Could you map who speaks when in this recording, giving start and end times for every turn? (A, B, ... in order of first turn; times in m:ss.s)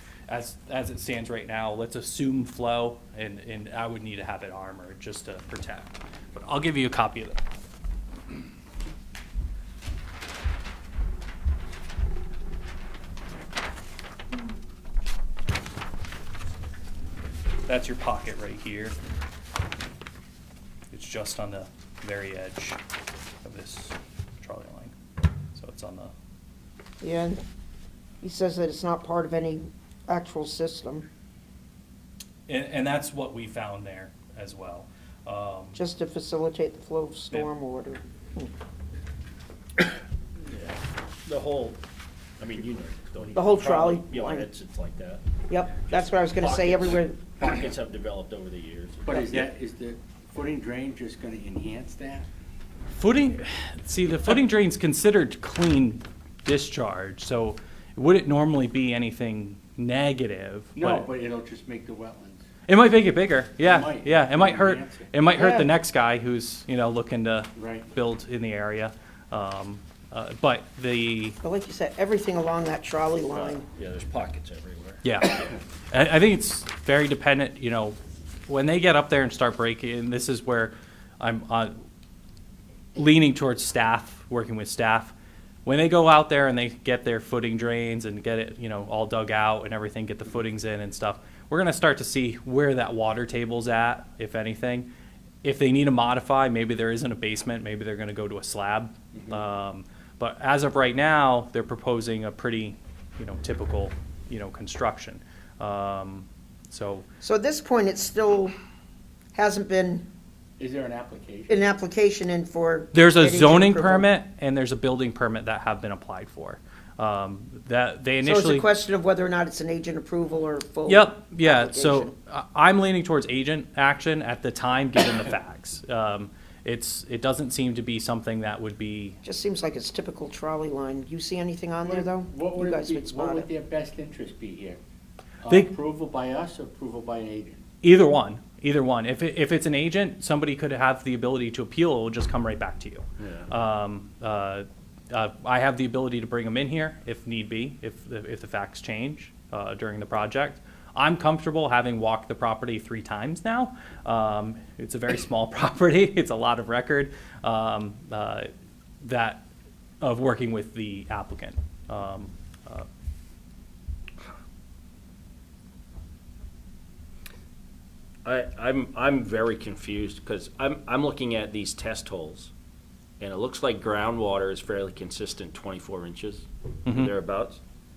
0:00.3-0:07.4 A
0:17.7-0:19.0 A
0:20.9-0:22.8 A
0:23.4-0:25.0 A
0:25.5-0:26.1 A
0:27.0-0:27.4 B
0:28.2-0:31.1 B
0:32.5-0:35.8 A
0:35.8-0:38.5 B
0:40.4-0:41.8 C
0:42.4-0:49.5 C
0:43.3-0:44.5 B
0:45.5-0:47.4 B
0:49.0-0:52.3 D
0:52.9-1:01.0 A
1:00.8-1:02.4 D
1:02.7-1:11.4 A
1:03.6-1:05.1 D
1:05.3-1:05.7 B
1:07.6-1:07.9 D
1:11.4-1:13.6 B
1:13.3-1:15.0 C
1:15.0-1:21.8 A
1:23.0-1:25.1 A
1:25.6-1:34.9 A
1:35.4-1:47.1 A
1:47.2-1:48.6 B
1:49.3-1:50.1 B
1:50.6-1:51.6 D
1:51.5-1:54.1 B
1:52.9-1:58.7 A
1:58.2-2:02.1 B
2:00.9-2:09.2 A
2:09.2-2:13.5 B
2:11.8-2:14.8 D
2:15.4-2:17.6 D
2:17.8-2:39.5 A
2:23.2-2:23.5 C
2:40.0-2:42.9 A
2:48.2-2:52.5 C
2:53.2-2:57.6 C
2:56.9-2:57.1 A